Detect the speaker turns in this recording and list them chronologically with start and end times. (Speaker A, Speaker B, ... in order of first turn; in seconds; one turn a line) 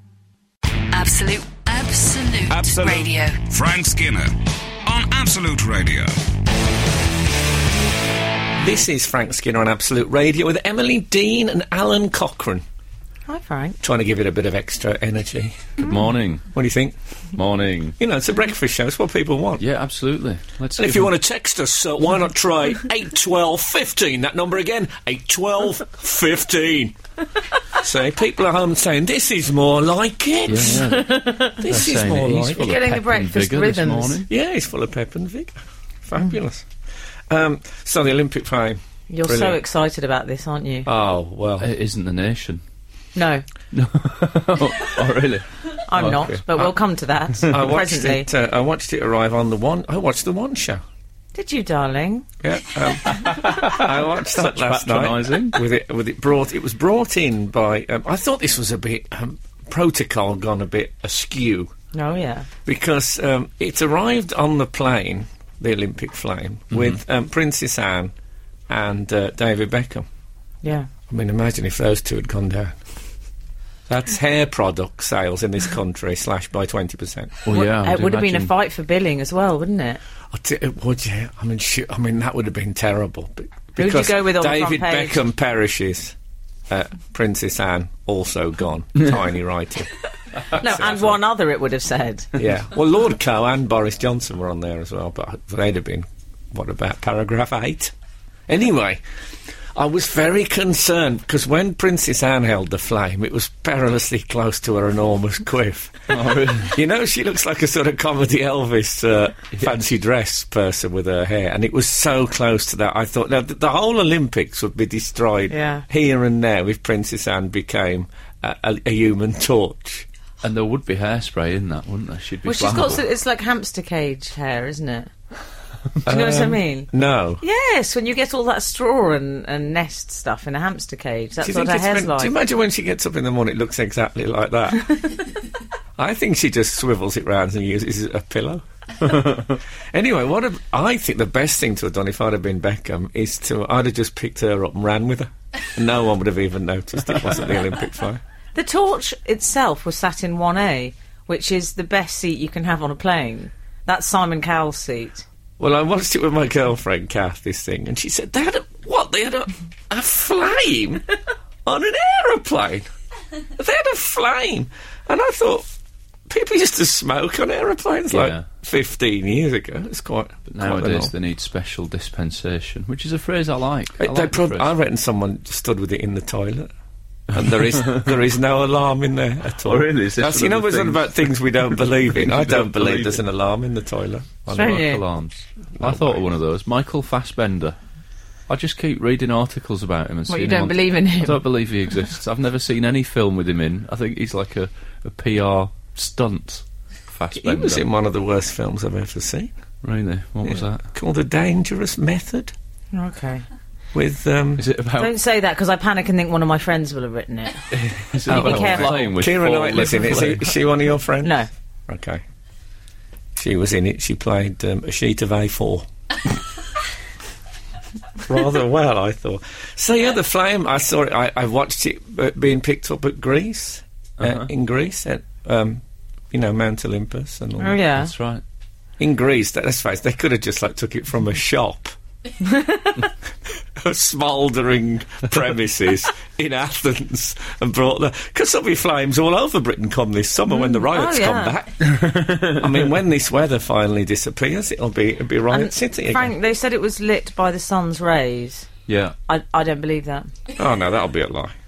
Speaker A: 0.9-3.4
Speaker B: 2.5-6.2
Speaker C: 8.6-12.6
Speaker D: 13.3-13.8
Speaker C: 13.8-15.8
Speaker E: 15.8-16.5
Speaker C: 16.5-16.9
Speaker E: 17.3-17.9
Speaker C: 18.0-19.6
Speaker E: 19.6-21.1
Speaker C: 20.8-27.0
Speaker C: 27.7-31.0
Speaker E: 30.5-34.3
Speaker D: 30.8-31.6
Speaker C: 31.6-32.7
Speaker D: 32.5-34.2
Speaker C: 34.3-36.7
Speaker C: 37.3-39.6
Speaker D: 39.1-40.9
Speaker C: 40.9-41.7
Speaker E: 41.6-42.6
Speaker D: 43.1-43.5
Speaker E: 43.7-46.3
Speaker D: 45.9-48.3
Speaker C: 47.4-50.8
Speaker D: 51.3-52.2
Speaker C: 52.4-61.7
Speaker E: 53.0-55.6
Speaker D: 61.9-62.5
Speaker C: 62.6-68.1
Speaker E: 66.7-67.0
Speaker C: 68.7-70.1
Speaker D: 70.6-70.9
Speaker C: 71.1-72.8
Speaker C: 73.9-77.4
Speaker E: 77.4-78.5
Speaker D: 77.5-80.0
Speaker C: 80.3-86.2
Speaker D: 83.8-85.2
Speaker C: 86.7-89.9
Speaker C: 90.5-91.2
Speaker D: 90.5-92.3
Speaker C: 92.3-97.9
Speaker C: 98.5-99.0
Speaker C: 99.8-120.1
Speaker E: 106.1-106.8
Speaker D: 115.5-115.8
Speaker E: 120.4-123.0
Speaker D: 122.5-125.1
Speaker D: 126.0-126.9
Speaker C: 126.0-127.4
Speaker D: 127.4-132.3
Speaker C: 131.4-134.9
Speaker C: 136.0-148.2
Speaker D: 148.6-155.2
Speaker C: 155.6-161.1
Speaker C: 161.7-162.9
Speaker C: 163.6-165.7
Speaker C: 166.3-171.1
Speaker E: 168.1-168.4
Speaker E: 170.5-174.7
Speaker C: 174.0-176.7
Speaker C: 177.3-184.8
Speaker E: 177.3-178.2
Speaker E: 179.6-183.2
Speaker E: 184.5-187.8
Speaker D: 184.5-185.0
Speaker C: 185.8-186.2
Speaker E: 188.5-197.8
Speaker D: 190.3-191.4
Speaker C: 197.3-199.5
Speaker E: 199.8-200.8
Speaker C: 200.4-202.5
Speaker D: 202.9-203.4
Speaker C: 203.9-204.7
Speaker E: 204.6-205.1
Speaker D: 205.0-207.7
Speaker E: 207.9-210.6
Speaker D: 208.2-209.1
Speaker C: 208.3-212.2
Speaker D: 211.2-211.5
Speaker C: 213.4-215.9
Speaker C: 218.2-227.8
Speaker E: 224.2-224.5
Speaker D: 227.6-228.1
Speaker E: 228.0-228.4
Speaker C: 229.0-231.9
Speaker D: 232.4-233.1
Speaker C: 233.8-246.3
Speaker D: 240.5-241.6
Speaker E: 241.8-242.7
Speaker D: 245.5-248.7
Speaker E: 248.9-249.2
Speaker D: 249.3-250.3
Speaker C: 250.5-251.5